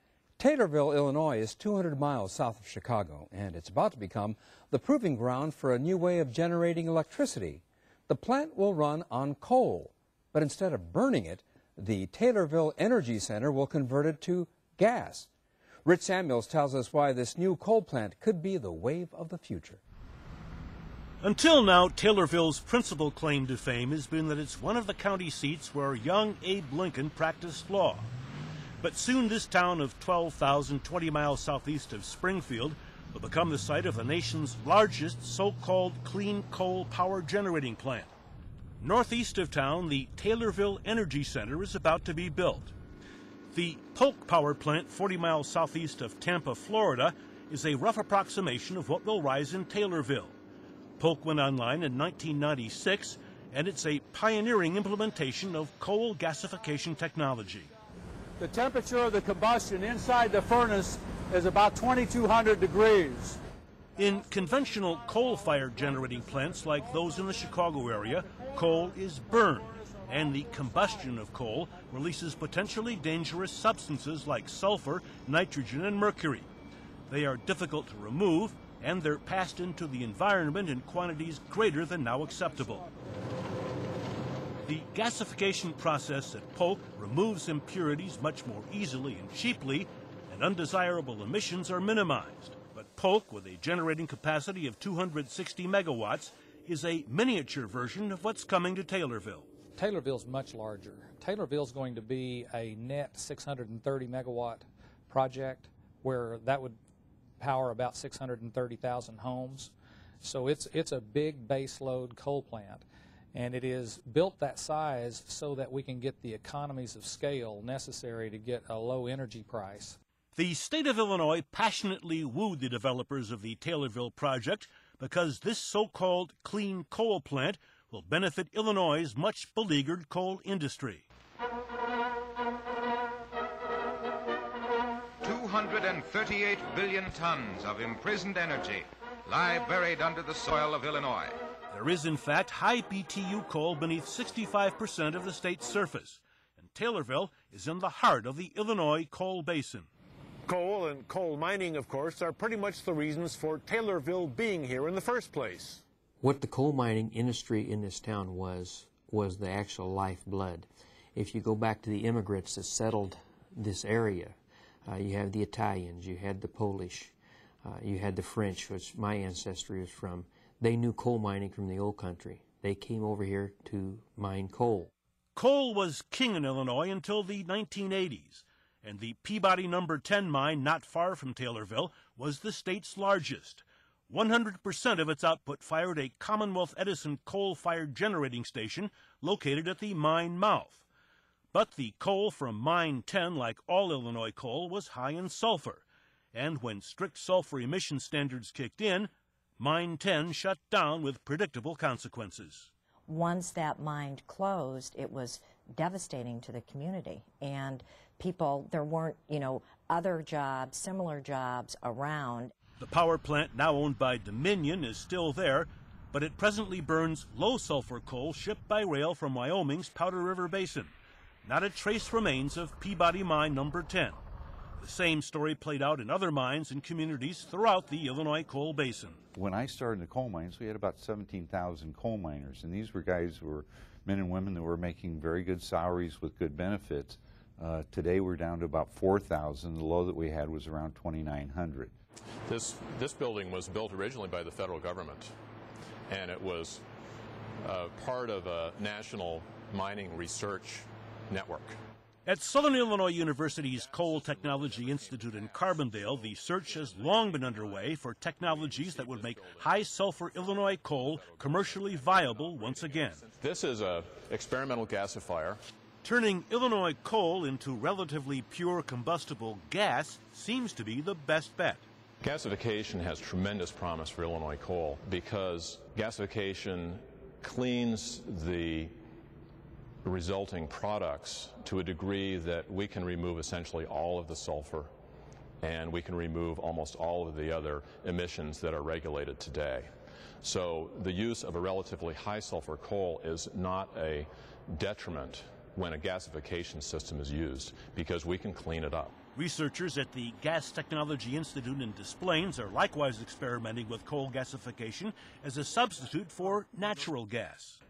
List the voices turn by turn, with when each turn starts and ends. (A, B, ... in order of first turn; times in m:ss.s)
0:00.4-0:15.3 A
0:15.8-0:19.8 A
0:21.2-0:28.1 B
0:28.8-0:38.1 B
0:38.8-0:42.7 B
0:43.5-0:50.4 B
0:51.0-0:57.7 B
0:58.4-1:03.4 C
1:04.0-1:16.5 B
1:17.1-1:22.8 B
1:24.7-1:39.5 B
1:39.8-1:46.8 D
1:47.4-2:00.0 D
2:00.4-2:11.1 B
2:15.4-2:17.6 E
2:18.2-2:18.8 E
2:19.5-2:20.8 E
2:21.7-2:29.9 B
2:30.5-2:35.8 F
2:36.2-2:54.9 G
2:55.4-3:10.8 B
3:11.5-3:22.7 B
3:23.1-3:32.5 H
3:32.8-3:44.2 B
3:44.8-3:49.2 B
3:49.3-4:01.9 I
4:02.5-4:05.3 J
4:06.1-4:06.8 J
4:07.6-4:11.8 J
4:12.3-4:23.2 B
4:15.0-4:15.7 J
4:18.6-4:19.6 J
4:21.2-4:25.6 J
4:26.0-4:31.8 B
4:32.2-4:39.0 J
4:40.0-4:44.9 J
4:45.6-4:49.9 J
4:50.4-4:59.1 J
4:59.4-5:07.8 B